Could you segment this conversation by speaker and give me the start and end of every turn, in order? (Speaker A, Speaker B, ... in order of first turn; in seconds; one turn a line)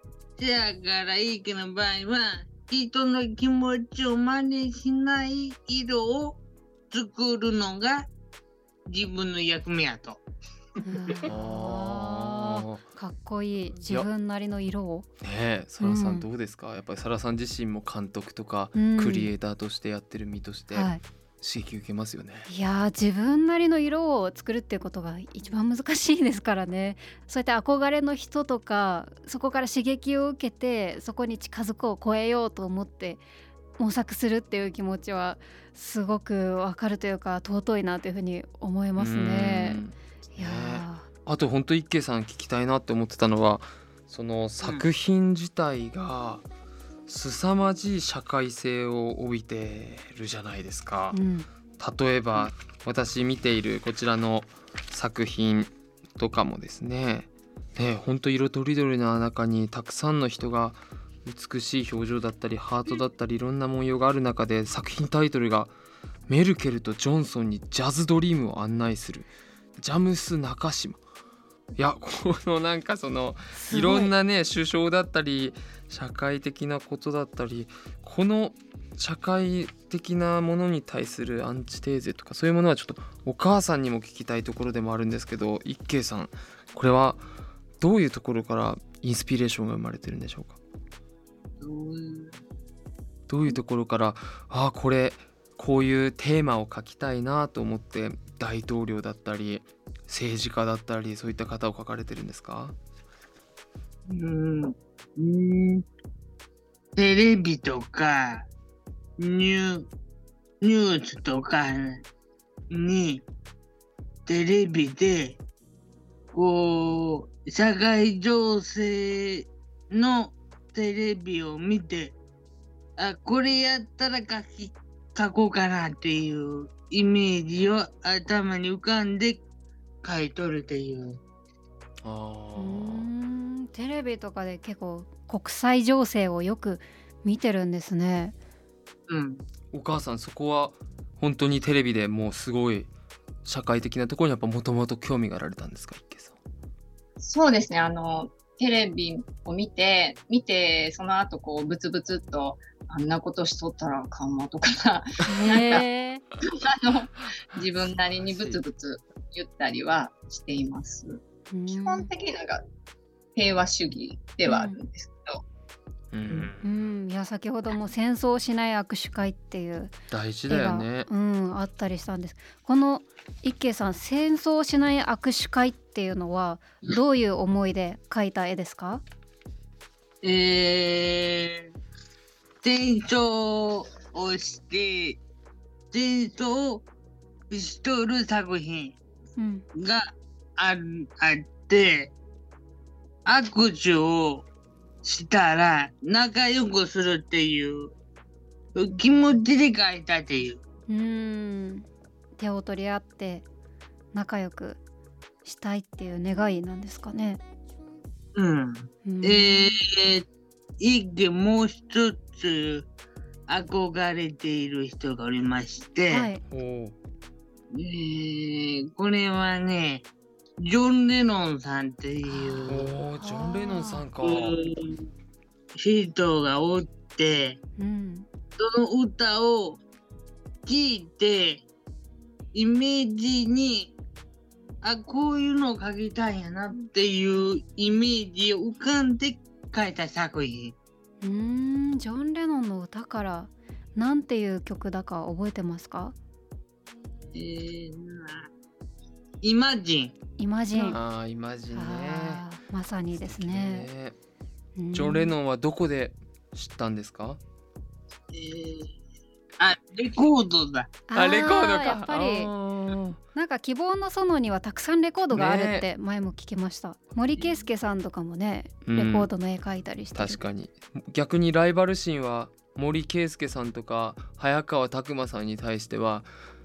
Speaker A: 0.4-6.4
Speaker A: 6.9-8.1
Speaker A: 8.9-10.2
Speaker B: 10.8-15.1
Speaker C: 11.2-12.8
Speaker C: 13.8-14.1
Speaker C: 15.2-22.5
Speaker B: 15.8-16.3
Speaker B: 18.8-19.3
Speaker B: 20.7-21.0
Speaker B: 22.5-33.2
Speaker B: 33.8-39.8
Speaker C: 39.0-46.5
Speaker B: 40.4-41.1
Speaker C: 47.1-51.2
Speaker B: 51.1-51.5
Speaker C: 51.8-65.7
Speaker C: 66.3-71.0
Speaker C: 71.8-87.2
Speaker B: 73.5-74.1
Speaker C: 87.8-90.6
Speaker A: 91.6-92.4
Speaker C: 93.3-102.8
Speaker A: 104.1-105.8
Speaker A: 107.0-108.5
Speaker A: 109.2-109.9
Speaker A: 110.6-112.0
Speaker A: 112.7-113.2
Speaker A: 114.3-115.4
Speaker A: 116.3-122.2
Speaker A: 123.0-129.4
Speaker A: 130.0-131.2
Speaker C: 132.0-133.1
Speaker B: 132.6-138.3
Speaker A: 139.1-139.4
Speaker C: 139.7-142.9
Speaker C: 143.4-146.4
Speaker D: 147.2-155.9
Speaker B: 155.2-156.2
Speaker D: 156.4-162.6
Speaker C: 158.1-158.6
Speaker B: 161.5-162.1
Speaker D: 163.4-165.4
Speaker B: 164.5-164.8
Speaker C: 166.1-166.7
Speaker B: 166.6-169.9
Speaker C: 170.1-171.1
Speaker B: 170.5-179.0
Speaker A: 180.2-181.7
Speaker A: 182.6-185.2
Speaker A: 185.9-186.9
Speaker A: 187.5-189.0
Speaker B: 189.4-189.6
Speaker A: 189.8-192.1
Speaker A: 193.3-194.5
Speaker A: 195.0-197.9
Speaker A: 198.8-200.6
Speaker B: 200.9-201.9
Speaker B: 202.4-203.4
Speaker B: 204.1-204.8
Speaker B: 205.4-207.4
Speaker A: 208.3-210.2
Speaker B: 209.1-209.8
Speaker A: 210.8-212.9
Speaker A: 213.5-216.3
Speaker B: 216.1-216.4
Speaker C: 216.5-216.9
Speaker A: 217.7-220.1
Speaker A: 220.6-222.9
Speaker B: 222.3-224.1
Speaker C: 222.7-224.6
Speaker A: 224.2-225.1
Speaker A: 225.8-227.6
Speaker B: 227.8-228.3
Speaker A: 228.6-229.8
Speaker A: 230.7-231.7
Speaker A: 232.5-233.9
Speaker A: 234.8-240.8
Speaker B: 241.2-246.2
Speaker A: 247.3-248.5
Speaker A: 249.4-250.2
Speaker B: 250.4-251.0
Speaker C: 250.8-252.4
Speaker B: 251.7-253.9
Speaker C: 253.1-254.2
Speaker B: 254.8-255.3
Speaker C: 254.9-257.4
Speaker A: 258.3-258.9
Speaker A: 259.6-260.9
Speaker B: 261.1-262.5
Speaker C: 261.1-263.2
Speaker B: 263.4-270.4
Speaker C: 265.3-265.9
Speaker C: 268.9-269.3
Speaker C: 270.1-276.3